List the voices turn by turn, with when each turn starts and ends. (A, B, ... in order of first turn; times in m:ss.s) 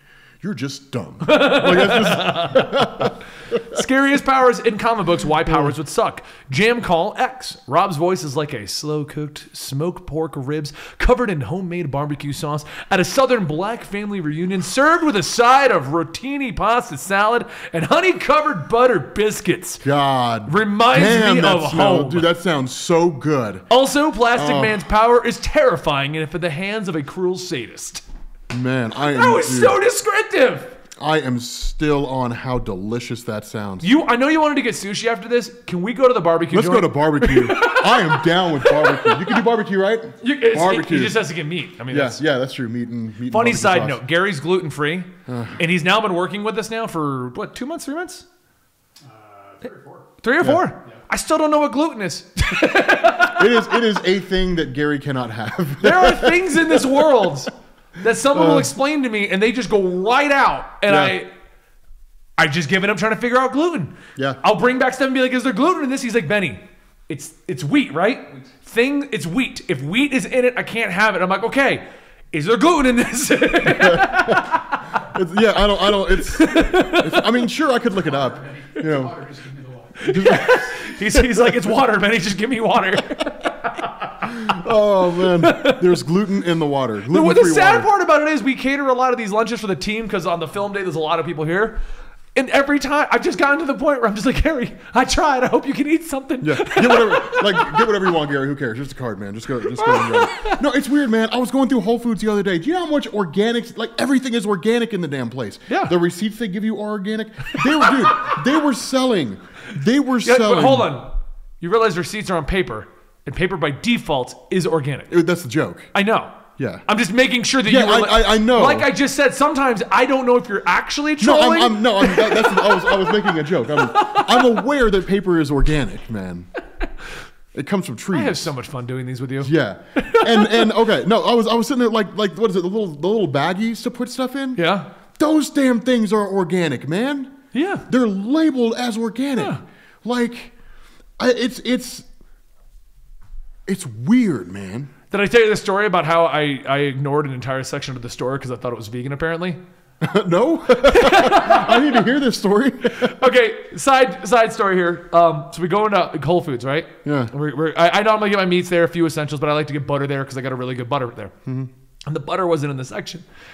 0:00.4-0:03.2 A
0:01.2-0:19.8 B
0:05.4-0:05.7 A
0:19.8-0:23.7 A
0:20.5-0:22.3 B
0:23.7-0:28.0 B
0:24.3-0:24.8 A
0:28.5-0:29.8 A
0:29.0-0:30.8 B
0:31.0-0:33.9 A
0:33.8-0:39.4 B
0:36.5-0:41.2 A
0:40.2-0:42.2 B
0:41.9-0:44.0 A
0:43.3-0:48.2 B
0:45.3-0:45.6 A
0:49.0-0:50.1 C
0:50.2-0:53.8 B
0:53.2-0:57.3 A
0:55.8-1:01.3 B
0:58.3-0:58.7 A
1:00.9-1:01.2 A
1:02.4-1:15.1 B
1:13.6-1:19.2 A
1:16.1-1:17.3 B
1:18.1-1:20.4 C
1:20.0-1:24.5 B
1:20.0-1:21.5 A
1:24.2-1:27.9 A
1:25.2-1:26.0 B
1:27.1-1:31.8 B
1:32.4-1:38.0 B
1:36.4-1:50.9 A
1:39.7-1:40.6 B
1:45.7-1:45.9 B
1:47.6-1:48.4 B
1:50.2-1:55.1 B
1:55.1-1:55.9 A
1:55.9-2:04.6 B
1:56.6-1:56.8 A
1:57.6-1:58.9 A
2:01.2-2:06.5 A
2:07.5-2:08.5 A
2:08.1-2:10.7 B
2:09.4-2:14.6 A
2:14.6-2:14.9 B
2:15.2-2:17.4 A
2:17.5-2:17.9 B
2:17.9-2:20.5 A
2:21.2-2:22.1 A
2:23.7-2:24.9 A
2:25.1-2:29.6 B
2:30.0-2:33.1 A
2:30.8-2:32.0 B
2:32.9-2:41.3 B
2:37.0-2:37.3 A
2:41.5-2:41.7 A
2:42.1-2:43.2 B